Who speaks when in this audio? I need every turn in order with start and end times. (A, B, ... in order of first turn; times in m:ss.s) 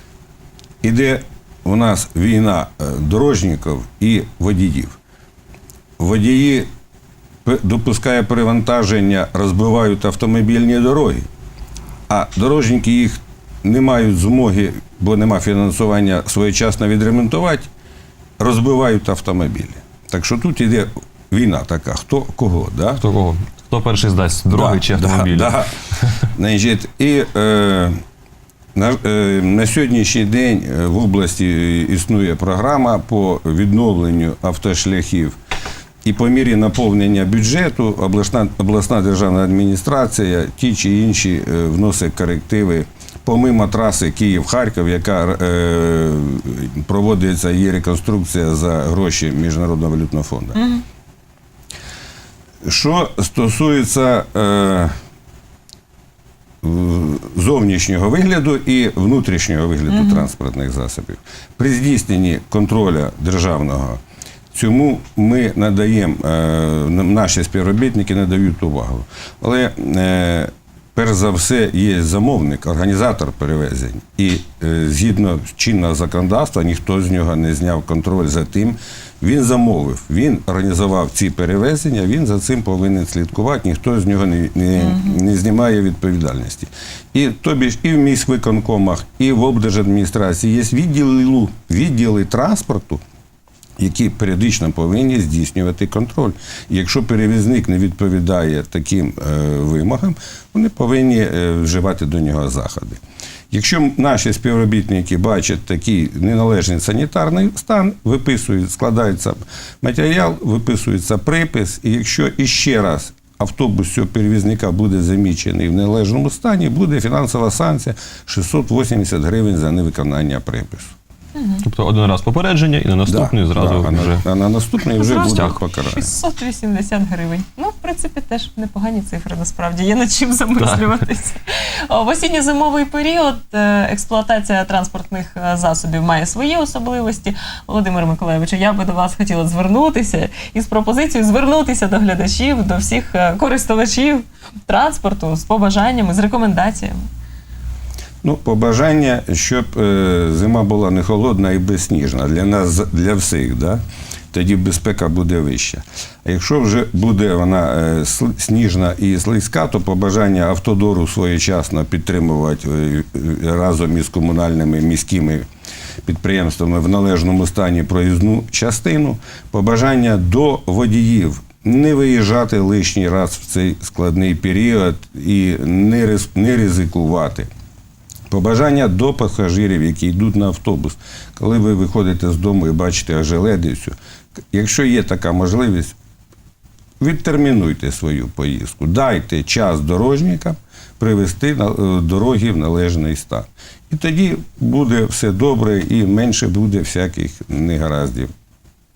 0:00.8-0:04.9 A
0:06.0-0:06.7 A
0:07.4-0:11.3 A
0:12.1-0:17.7 A
0:18.4-0:23.0 A
0:23.0-0:26.2 B
0:24.5-0:25.7 A
0:26.3-0:28.0 A
0:28.7-0:35.3 A
0:36.0-0:50.6 A
0:50.5-0:50.8 C
0:52.6-0:54.9 A
0:56.6-1:04.0 A
0:59.9-1:00.3 C
1:04.5-1:33.0 A
1:24.8-1:25.2 C
1:33.8-1:43.0 A
1:43.5-2:00.9 A
2:01.4-2:01.6 C
2:01.6-2:04.2 B
2:03.0-2:06.1 A
2:05.0-2:27.0 C
2:05.1-2:05.5 B
2:28.2-2:33.8 A
2:34.3-2:45.4 A
2:46.0-2:57.5 A
2:58.3-3:03.9 A
3:04.5-3:05.9 A
3:07.0-3:18.3 A